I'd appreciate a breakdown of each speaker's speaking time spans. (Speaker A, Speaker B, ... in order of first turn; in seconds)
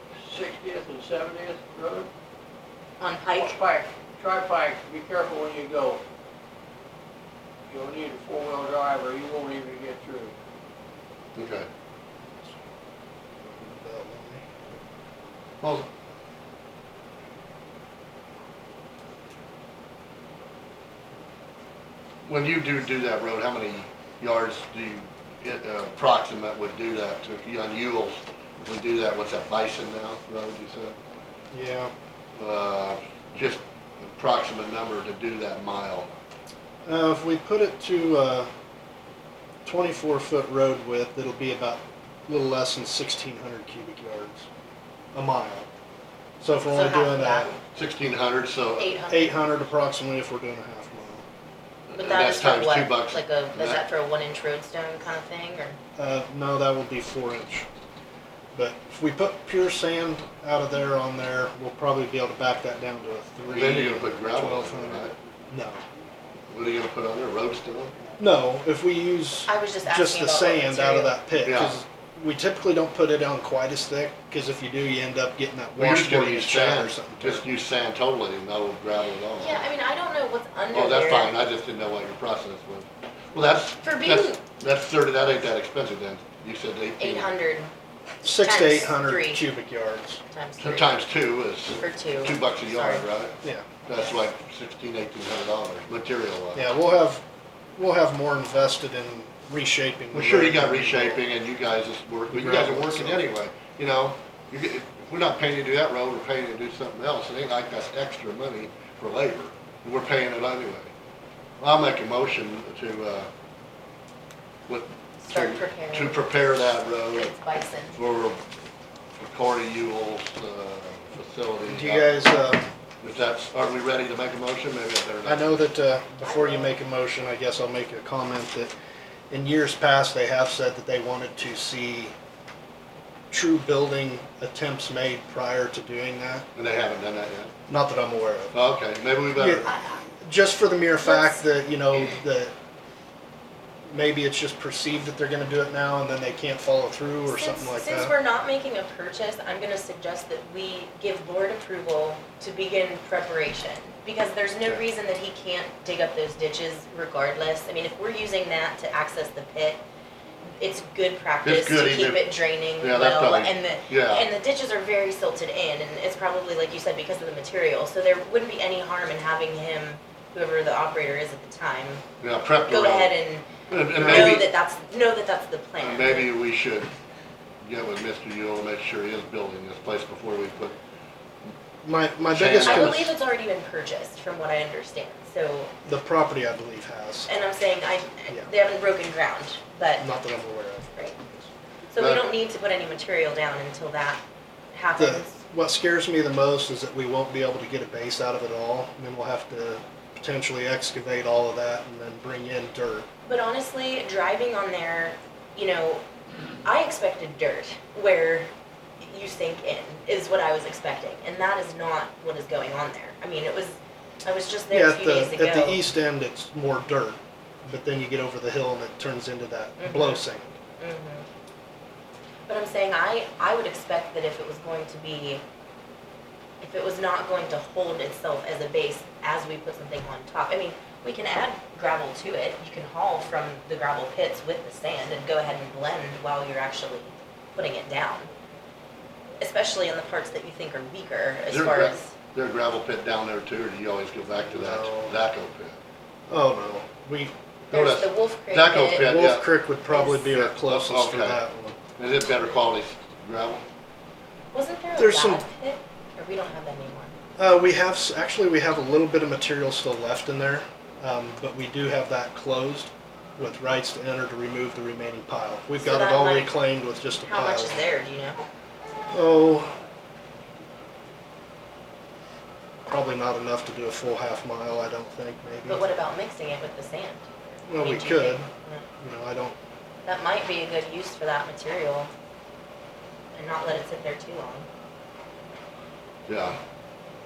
Speaker A: 0.2-2.1, 3.3-6.0, 7.7-10.3
Speaker B: 3.0-3.6, 46.7-47.6, 48.8-49.6, 52.0-55.8, 69.5-71.2, 79.3-81.4, 83.8-84.4, 87.0-87.7, 88.2-89.5, 90.3-91.0, 91.8-93.1, 115.2-116.4, 117.1-118.0, 126.2-126.7, 139.7-140.0, 141.0-141.4, 147.2-159.8, 160.6-172.0, 172.7-176.3, 182.6-185.7, 187.3-190.1, 191.9-194.2, 194.7-195.4, 203.2-206.0, 206.6-208.5, 209.0-215.8, 219.8-220.2, 220.8-221.2, 222.5-225.4, 226.6-238.3, 239.4-242.1, 247.7-249.1, 249.9-250.2, 254.5-257.1, 265.8-266.5, 267.2-268.4, 275.6-278.9, 280.1-282.1, 283.3-284.7
Speaker C: 11.4-11.7, 22.2-31.0, 32.4-36.1, 47.7-49.0, 51.9-53.8, 63.5-65.1, 66.5-67.9, 71.4-71.8, 75.8-79.7, 80.7-87.3, 90.6-96.6, 100.1-110.9, 111.6-113.3, 114.7-117.3, 117.9-118.4, 119.2-122.2, 123.0-125.7, 136.6-137.5, 138.5-139.7, 161.4-164.3, 172.2-173.1, 173.7-174.5, 175.8-176.9, 177.6-180.8, 182.3-183.1, 192.0-192.3, 241.5-245.8, 247.7-249.5, 250.2-251.4, 252.0-253.7, 286.3-286.6
Speaker D: 13.4-14.4, 31.5-31.9, 36.9-38.5, 39.6-44.5, 45.1-45.7, 46.4-47.5, 49.1-51.2, 56.0-57.7, 58.5-65.8, 68.2-77.4, 88.2-90.2, 93.4-93.7, 96.5-97.2, 97.8-101.2, 102.3-103.2, 121.7-122.7, 125.2-128.7, 129.3-132.1, 133.3-136.5, 137.7-138.5, 139.3-142.5, 143.9-148.1, 181.8-183.1, 185.8-187.3, 190.0-191.5, 195.0-203.1, 214.7-220.5, 244.5-245.2, 246.3-247.3, 248.9-251.8, 254.9-255.4, 257.4-267.8, 269.1-269.8, 272.9-275.8, 277.7-278.5, 279.0-279.6